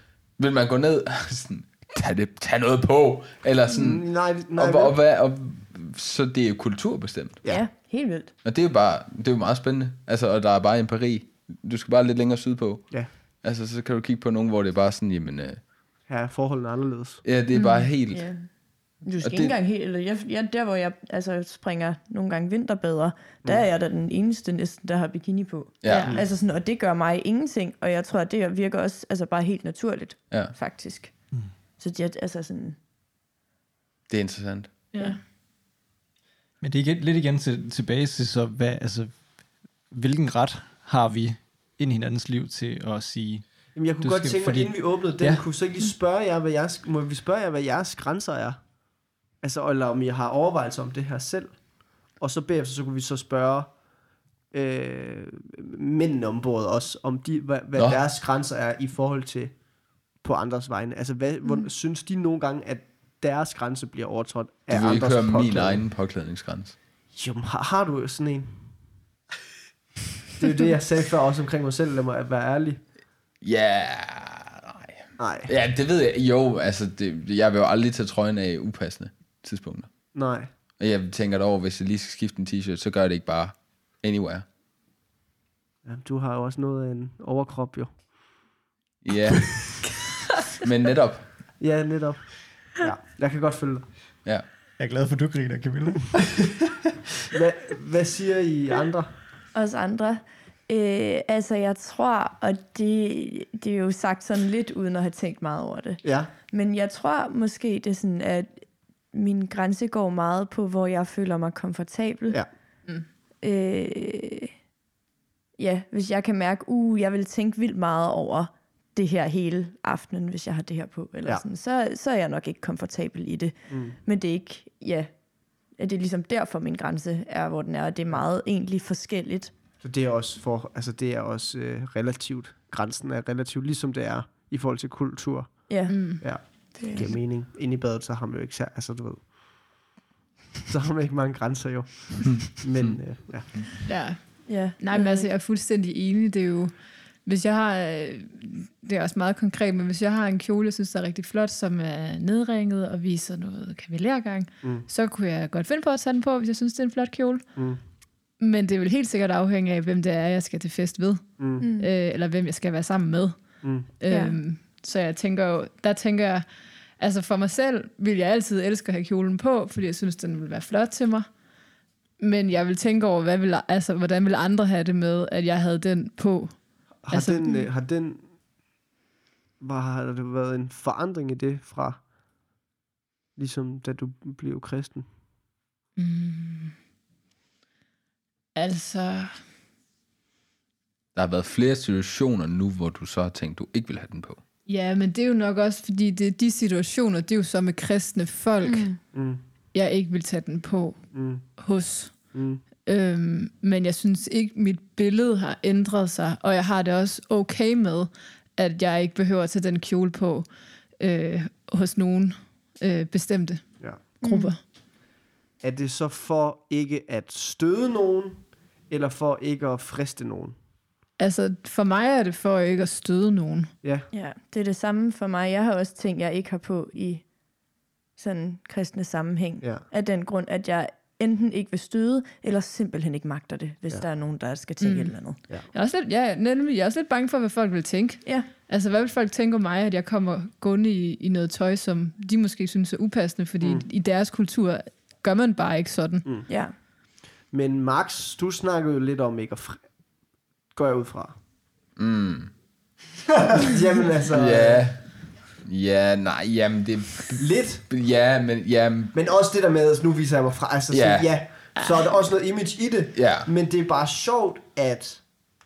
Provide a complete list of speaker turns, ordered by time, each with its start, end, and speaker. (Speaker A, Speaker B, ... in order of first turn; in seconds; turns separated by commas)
Speaker A: 0.4-7.4, Speaker B: 3.7-5.0, Speaker C: 7.5-8.3, Speaker A: 8.4-15.7, Speaker B: 16.1-17.2, Speaker A: 17.2-18.5, Speaker D: 17.5-17.9, Speaker C: 18.1-32.8, Speaker A: 19.2-19.6, Speaker A: 25.8-26.1, Speaker D: 25.9-26.1, Speaker A: 34.1-34.8, Speaker D: 34.9-35.2, Speaker E: 36.6-45.5, Speaker B: 43.7-48.6, Speaker B: 49.4-53.8, Speaker B: 54.5-65.8, Speaker A: 57.8-58.0, Speaker A: 64.7-66.8, Speaker B: 67.1-68.8, Speaker B: 70.4-72.8, Speaker A: 73.4-84.5, Speaker B: 75.2-75.5, Speaker B: 80.1-80.5, Speaker B: 85.8-88.4, Speaker A: 89.0-89.8, Speaker A: 90.6-91.5, Speaker B: 91.6-94.2, Speaker E: 94.8-96.6, Speaker B: 97.3-99.2, Speaker C: 99.5-112.5, Speaker B: 106.0-106.3, Speaker C: 113.4-114.5, Speaker C: 115.6-125.1, Speaker B: 123.7-124.0, Speaker C: 125.8-129.5, Speaker B: 129.8-139.8, Speaker C: 135.7-137.2, Speaker D: 135.9-136.2, Speaker B: 140.7-143.6, Speaker A: 142.2-143.0, Speaker D: 143.8-171.4, Speaker C: 144.4-145.3, Speaker B: 157.6-157.8, Speaker B: 161.4-161.7, Speaker C: 161.6-161.9, Speaker B: 163.6-163.9, Speaker C: 164.1-164.4, Speaker D: 172.2-177.7, Speaker B: 177.0-178.4, Speaker B: 179.6-182.1, Speaker B: 183.4-185.1, Speaker D: 186.0-186.8, Speaker D: 188.6-189.4, Speaker A: 191.1-194.4, Speaker D: 194.7-199.2, Speaker C: 198.6-199.0, Speaker B: 199.1-199.4, Speaker D: 199.7-214.6, Speaker B: 201.1-202.6, Speaker B: 213.8-214.1, Speaker C: 214.2-214.6, Speaker B: 215.6-220.6, Speaker D: 221.2-223.7, Speaker B: 223.8-224.1, Speaker C: 224.1-227.3, Speaker C: 228.2-235.4, Speaker B: 229.6-229.9, Speaker D: 234.8-246.3, Speaker B: 246.2-246.5, Speaker C: 246.5-246.8, Speaker B: 247.5-250.0, Speaker B: 250.7-251.4, Speaker A: 252.0-252.5, Speaker B: 253.5-254.9, Speaker A: 254.3-259.1, Speaker B: 257.4-257.9, Speaker B: 259.1-265.2, Speaker A: 260.9-261.4, Speaker D: 261.8-262.0, Speaker A: 263.1-263.5